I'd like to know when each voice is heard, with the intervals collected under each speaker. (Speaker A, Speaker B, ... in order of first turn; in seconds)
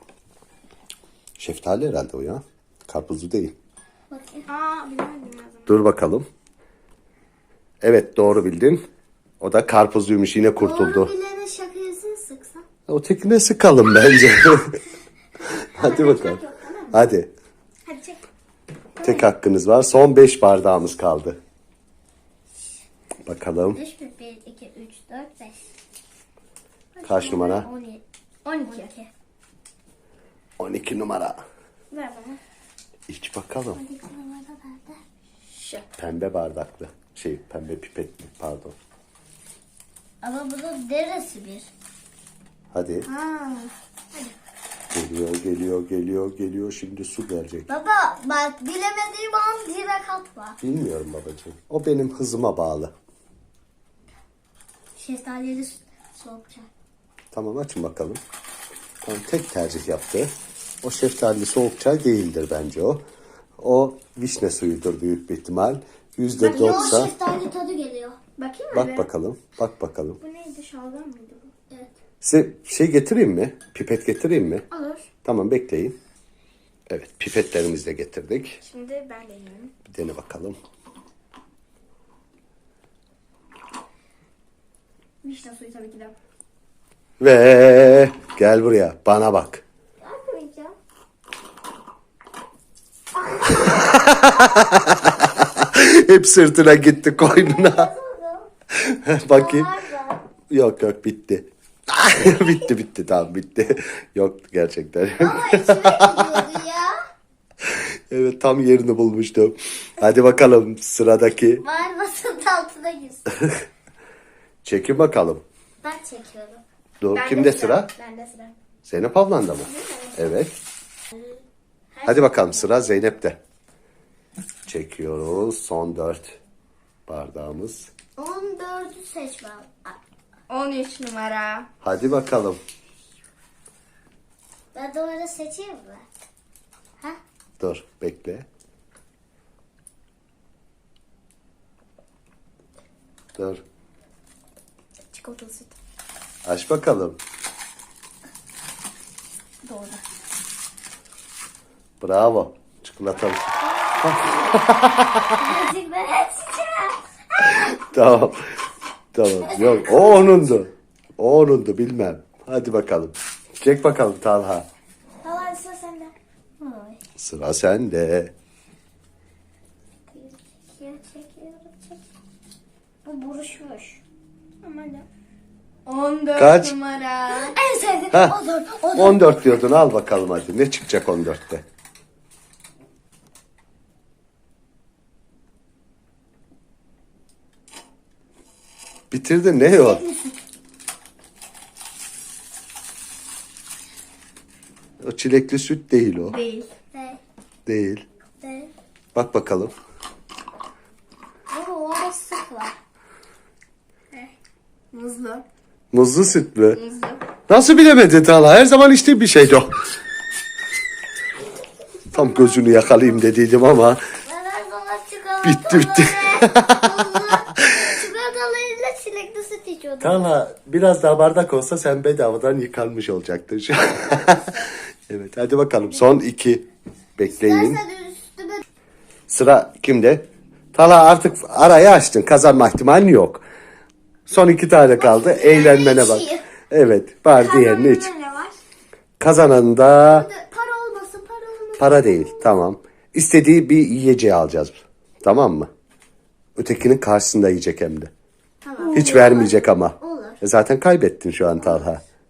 Speaker A: 1.4-3.5, 5.7-6.3, 7.8-8.8, 9.4-11.1, 12.9-14.8, 15.6-17.3, 19.0-21.4, 23.3-23.8, 27.0-27.7, 30.6-31.4, 33.1-33.8, 36.0-38.8, 42.7-43.1, 44.9-47.7, 50.6-52.9, 57.3-58.2, 59.0-60.3, 60.8-63.0, 63.6-67.1, 68.7-70.2, 72.2-74.7, 75.2-76.0, 76.9-78.6, 79.9-80.6, 87.2-89.6, 93.6-97.9, 98.8-99.7, 100.5-106.4, 107.6-111.6, 114.6-115.4, 117.0-117.9, 118.8-120.5, 122.0-123.4, 124.7-126.4, 127.1-127.9, 131.8-132.6, 137.6-138.5, 143.3-143.6, 146.4-147.2, 152.0-155.3, 157.6-158.6, 159.1-164.7, 167.2-168.3, 176.3-176.8, 178.9-181.6, 189.1-190.0, 195.0-196.4, 197.7-198.1, 199.2-199.7, 205.9-206.8, 207.5-209.8, 212.1-214.0, 215.4-217.3, 220.0-224.6, 225.1-227.8, 229.3-233.4, 234.3-238.1, 239.2-240.3, 241.8-245.7, 246.6-248.1, 248.9-252.0
Speaker B: 4.1-4.5, 10.6-12.7, 17.9-18.2, 19.0-19.3, 23.8-25.6, 27.0-28.0, 28.6-29.1, 33.7-35.0, 40.2-41.7, 47.7-50.6, 55.0-56.7, 66.5-68.2, 97.3-98.5, 99.3-100.2, 105.2-107.0, 111.6-113.4, 115.8-116.6, 121.9-122.7, 128.2-130.0, 134.7-136.1, 149.6-150.0, 153.8-154.1, 155.4-157.7, 159.4-160.5, 166.6-167.0, 170.1-172.0, 173.1-174.0, 177.3-179.7, 189.7-190.4, 196.9-197.2, 198.4-198.7, 201.5-202.8, 214.2-220.3, 224.2-224.7, 227.2-228.6, 235.5-236.4, 240.0-242.6, 248.6-250.4
Speaker C: 4.5-5.9, 15.8-17.0, 28.4-29.0, 31.9-32.4, 35.5-35.9, 43.1-43.7, 66.4-67.1, 68.4-69.1, 70.2-71.5, 74.7-75.1, 78.6-79.7, 85.2-86.1, 90.0-90.8, 117.1-118.6, 119.7-120.3, 130.5-131.7, 145.1-145.7, 165.2-166.1, 174.6-175.1, 175.9-177.6, 196.2-196.7, 204.9-205.4, 206.8-207.2, 235.0-236.2, 237.3-238.6, 248.8-249.5